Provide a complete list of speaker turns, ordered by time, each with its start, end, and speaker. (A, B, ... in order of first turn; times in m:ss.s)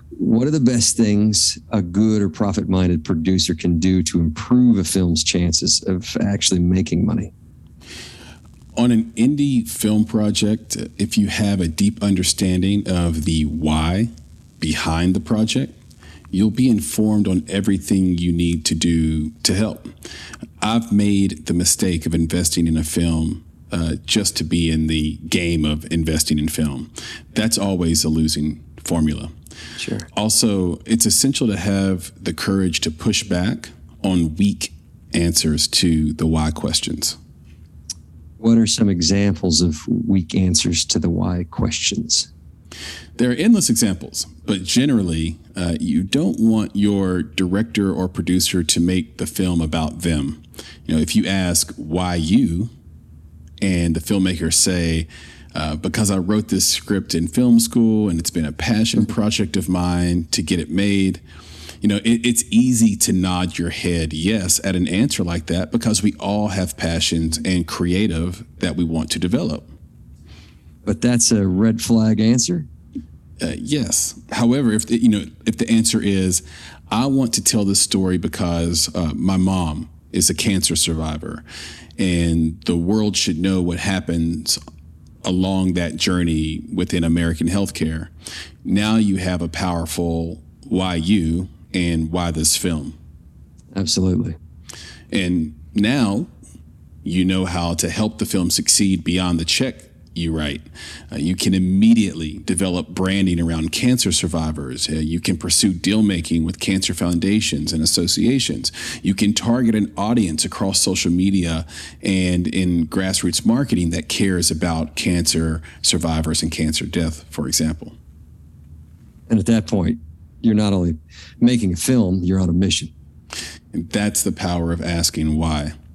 0:00.2-0:07.3 A
0:08.8-0:14.1 B
0:14.6-0:15.7 B
0:16.3-0:19.9 B
0:20.6-0:29.3 B
0:29.8-0:30.1 A
0:30.1-0:37.2 B
0:38.4-0:42.3 A
0:43.2-0:52.7 B
0:53.6-1:01.2 B
1:01.8-1:09.7 B
1:10.8-1:12.7 A
1:13.4-1:21.4 B
1:22.0-1:24.6 B
1:25.2-1:28.1 B
1:28.6-1:33.0 B
1:33.8-1:34.4 A
1:35.1-1:36.3 B
1:37.0-1:58.0 B
1:59.3-2:02.9 A
2:03.7-2:05.7 B